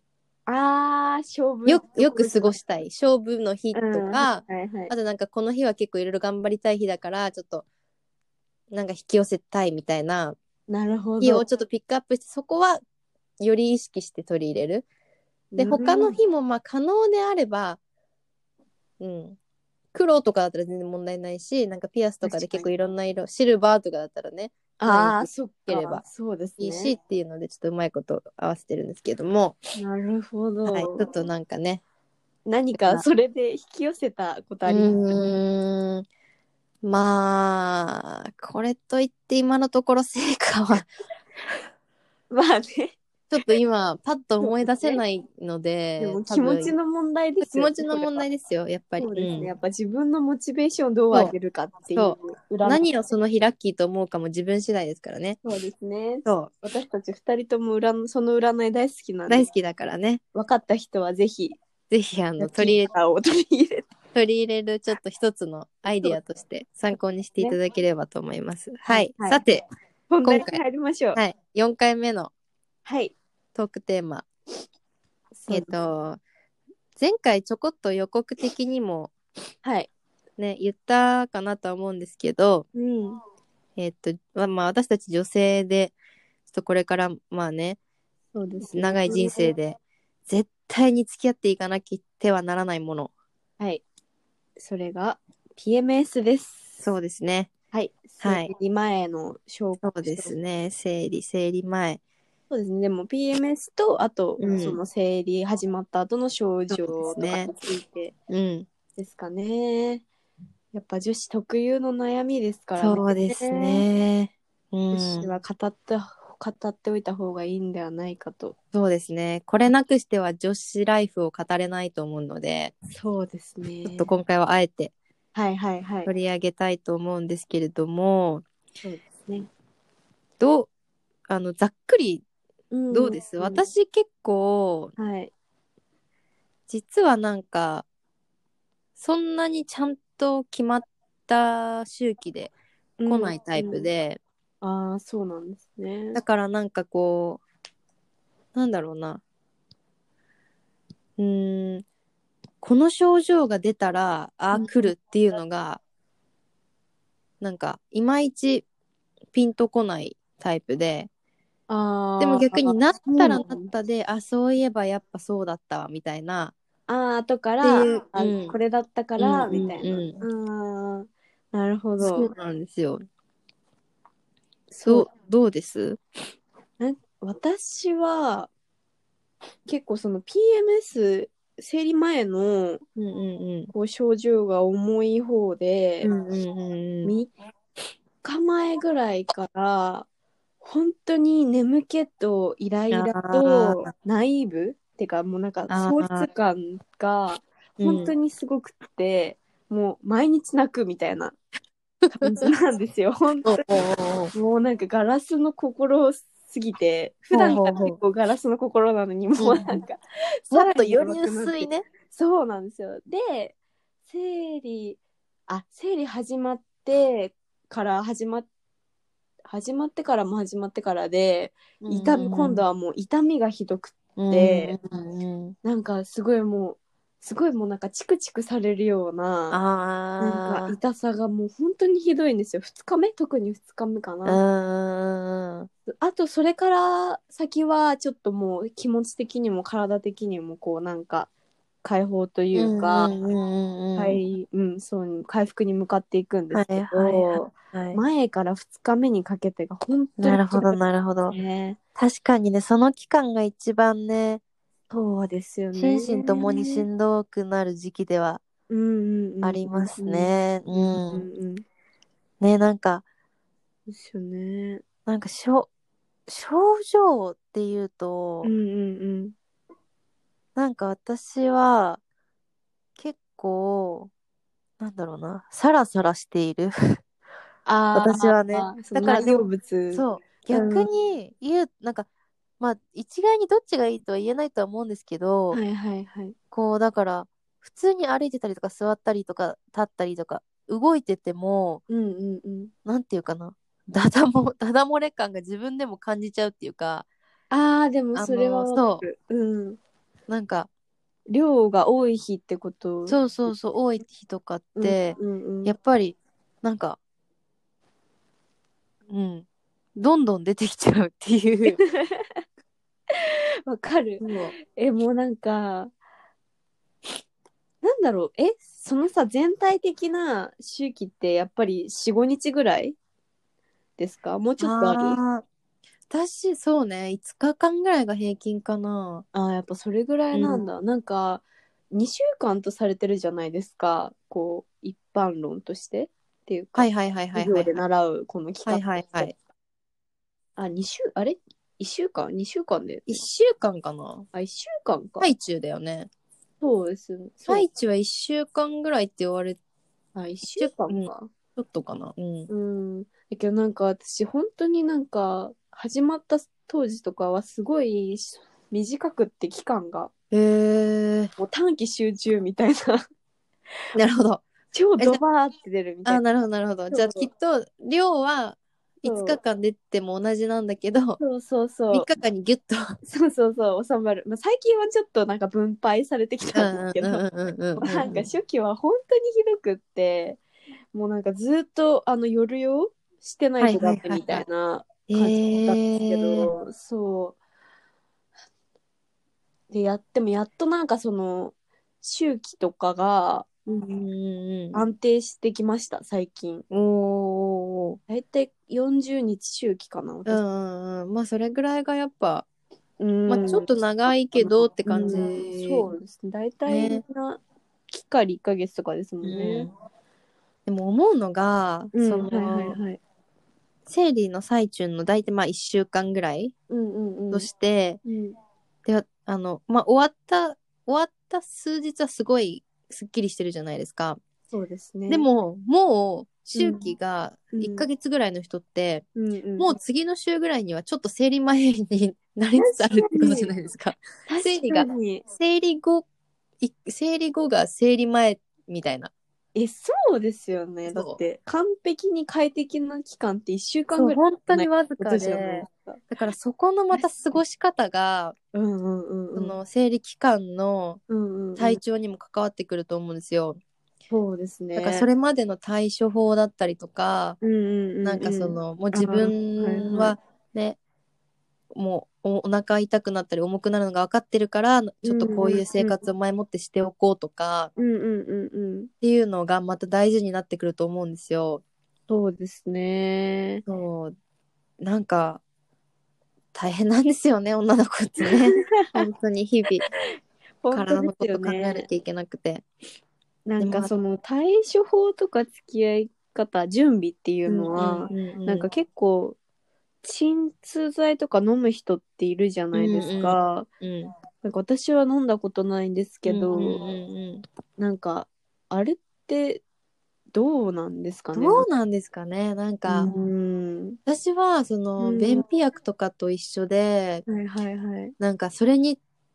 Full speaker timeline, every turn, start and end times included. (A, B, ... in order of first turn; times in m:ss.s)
0:00.5-0:02.5 A
0:01.6-0:07.6 B
0:03.7-0:04.9 A
0:08.7-0:10.4 B
0:10.7-0:11.4 A
0:11.2-0:12.8 B
0:13.4-0:14.9 B
0:15.5-0:16.2 A
0:15.6-0:17.8 B
0:19.0-0:19.4 B
0:19.9-0:26.0 B
0:22.2-0:22.7 A
0:24.8-0:27.0 A
0:26.6-0:29.6 B
0:29.8-0:31.1 A
0:30.7-0:31.8 B
0:32.4-0:35.3 A
0:32.7-0:33.0 B
0:34.6-0:36.0 B
0:36.8-0:40.9 B
0:42.3-0:43.0 A
0:43.3-0:46.8 B
0:44.4-0:45.0 A
0:46.0-0:48.2 A
0:47.4-0:49.5 B
0:49.0-0:52.9 A
0:51.9-0:55.4 B
0:55.4-0:59.5 A
0:56.2-0:56.5 B
0:59.3-1:00.2 B
1:00.3-1:01.6 A
1:01.9-1:02.9 B
1:02.4-1:03.9 A
1:04.1-1:09.6 B
1:05.9-1:06.2 A
1:08.9-1:09.4 A
1:10.1-1:11.2 A
1:10.2-1:10.6 B
1:11.1-1:12.3 B
1:12.8-1:13.1 A
1:13.5-1:14.2 B
1:15.4-1:15.7 A
1:15.4-1:16.2 B
1:17.0-1:19.1 B
1:19.6-1:19.9 A
1:20.4-1:22.6 B
1:22.7-1:23.2 A
1:23.8-1:25.9 B
1:26.5-1:27.8 B
1:28.3-1:29.5 A
1:28.7-1:33.1 B
1:34.6-1:36.8 A
1:36.8-1:37.5 B
1:37.7-1:40.3 A
1:38.2-1:38.5 B
1:39.8-1:42.0 B
1:42.5-1:48.1 A
1:44.4-1:44.8 B
1:46.7-1:47.5 B
1:48.3-1:48.7 B
1:49.0-1:50.0 A
1:50.7-1:53.8 A
1:52.8-1:55.3 B
1:54.9-1:58.5 A
1:58.7-2:02.7 B
2:02.9-2:04.1 A
2:03.8-2:04.9 B
2:05.3-2:06.1 A
2:06.0-2:08.4 B
2:08.8-2:09.5 A
2:10.4-2:10.7 B
2:11.3-2:12.2 B
2:12.7-2:13.6 A
2:12.9-2:14.9 B
2:15.0-2:15.3 A
2:16.7-2:17.8 B
2:19.0-2:22.5 B
2:23.0-2:23.9 A
2:23.1-2:24.2 B
2:24.6-2:26.2 A
2:26.1-2:27.4 B
2:28.5-2:29.2 B
2:31.2-2:31.8 B
2:32.6-2:35.8 B
2:34.5-2:34.9 A
2:37.4-2:38.6 B
2:39.3-2:41.1 B
2:41.7-2:43.7 A
2:42.2-2:46.5 B
2:46.9-2:52.3 A
2:47.6-2:48.6 B
2:49.2-2:50.2 B
2:52.0-2:53.0 B
2:54.7-2:55.1 A
2:54.8-2:56.0 B
2:56.8-2:58.5 A
2:59.6-3:02.8 A
3:03.0-3:03.7 B
3:03.7-3:06.1 A
3:06.0-3:07.1 B
3:07.0-3:07.3 A
3:08.2-3:10.1 A
3:10.6-3:21.4 A
3:12.9-3:13.9 B
3:15.7-3:16.3 B
3:17.8-3:18.1 B
3:22.0-3:22.5 B
3:22.2-3:23.7 A
3:23.4-3:24.3 B
3:24.3-3:38.5 A
3:27.3-3:28.0 B
3:29.4-3:29.8 B
3:30.5-3:31.8 B
3:39.5-3:44.8 A
3:41.8-3:42.6 B
3:44.2-3:45.6 B
3:45.6-3:49.6 A
3:49.5-3:50.7 B
3:50.2-3:54.4 A
3:54.2-3:55.7 B
3:55.9-4:01.3 A
4:01.8-4:03.1 A
4:02.5-4:04.2 B
4:04.0-4:11.8 A
4:06.5-4:08.0 B
4:10.2-4:11.4 B
4:12.0-4:14.4 B
4:14.9-4:16.8 A
4:15.7-4:18.4 B
4:18.7-4:21.6 A
4:19.4-4:21.3 B
4:22.4-4:23.0 B
4:23.9-4:24.8 A
4:25.0-4:25.7 B
4:26.3-4:28.5 B
4:28.4-4:29.3 A
4:30.6-4:32.0 B
4:33.0-4:34.1 B
4:34.8-4:37.0 B
4:37.6-4:40.9 A
4:37.9-4:42.1 B
4:42.6-4:45.6 B
4:45.5-4:46.4 A
4:46.5-4:51.8 B
4:51.9-4:52.7 A
4:52.8-4:57.1 B
4:57.5-4:59.8 A
4:58.1-4:59.0 B
5:00.3-5:00.7 B
5:01.3-5:03.2 A
5:03.1-5:07.0 B
5:04.8-5:05.7 A
5:09.1-5:11.8 B
5:11.6-5:12.4 A
5:13.1-5:15.9 A
5:14.2-5:14.5 B
5:17.8-5:23.0 A
5:24.0-5:25.2 A
5:24.6-5:25.4 B
5:26.1-5:29.2 B
5:29.3-5:39.3 A
5:30.3-5:30.6 B
5:36.7-5:37.7 B
5:38.6-5:39.3 B
5:40.6-5:43.2 A
5:43.1-5:44.2 B
5:44.3-5:45.3 A
5:45.2-5:46.1 B
5:46.6-5:47.7 A
5:47.5-5:49.6 B
5:50.1-5:51.3 A
5:50.5-5:52.5 B
5:52.5-6:00.1 A
6:00.3-6:01.3 B
6:01.4-6:03.0 A
6:03.9-6:04.4 B
6:04.7-6:06.2 A
6:06.0-6:11.2 B
6:06.9-6:07.3 A
6:09.0-6:09.4 A
6:11.2-6:12.1 A
6:11.9-6:13.0 B
6:13.0-6:17.2 A
6:16.5-6:18.3 B
6:17.8-6:20.4 A
6:20.9-6:27.4 A
6:23.6-6:24.4 B
6:25.1-6:26.5 B
6:29.7-6:33.8 A
6:33.8-6:34.8 B
6:34.7-6:36.6 A
6:36.7-6:38.0 B
6:38.1-6:40.4 A
6:40.2-6:42.4 B
6:43.0-6:43.7 A
6:43.3-6:45.9 B
6:44.4-6:49.7 A
6:46.7-6:47.0 B
6:49.2-6:49.7 B
6:50.6-6:52.8 B
6:51.9-6:53.0 A
6:53.9-6:56.5 B
6:56.7-6:57.5 A
6:57.3-6:58.0 B
6:58.0-6:58.4 A
6:58.8-7:04.2 B
7:04.5-7:05.3 A
7:05.1-7:09.0 B
7:06.5-7:06.9 A
7:07.5-7:07.9 A
7:09.2-7:09.7 A
7:09.6-7:16.0 B
7:12.6-7:13.5 A
7:14.3-7:15.2 A
7:16.6-7:19.1 B
7:19.5-7:26.0 A
7:20.9-7:21.2 B
7:24.0-7:28.3 B
7:28.5-7:29.6 A
7:29.3-7:31.0 B
7:31.1-7:31.8 A
7:31.6-7:33.6 B
7:34.1-7:35.1 A
7:34.8-7:37.4 B
7:37.4-7:40.1 A
7:38.0-7:40.8 B
7:41.7-7:47.7 B
7:45.0-7:46.0 A
7:47.8-7:48.9 A
7:49.0-7:51.6 B
7:52.1-7:53.6 A
7:53.6-7:54.1 B
7:54.8-7:55.4 B
7:56.5-7:59.8 B
7:58.2-7:59.1 A
8:00.6-8:01.9 A
8:00.7-8:02.6 B
8:03.4-8:09.4 A
8:03.6-8:03.9 B
8:07.5-8:08.7 B
8:10.0-8:13.7 A
8:12.7-8:14.1 B
8:14.4-8:16.8 A
8:16.2-8:17.4 B
8:17.8-8:19.6 A
8:20.3-8:21.7 A
8:21.3-8:23.1 B
8:22.9-8:24.0 A
8:24.0-8:27.2 B
8:25.0-8:25.4 A
8:27.2-8:28.1 A
8:28.2-8:29.0 B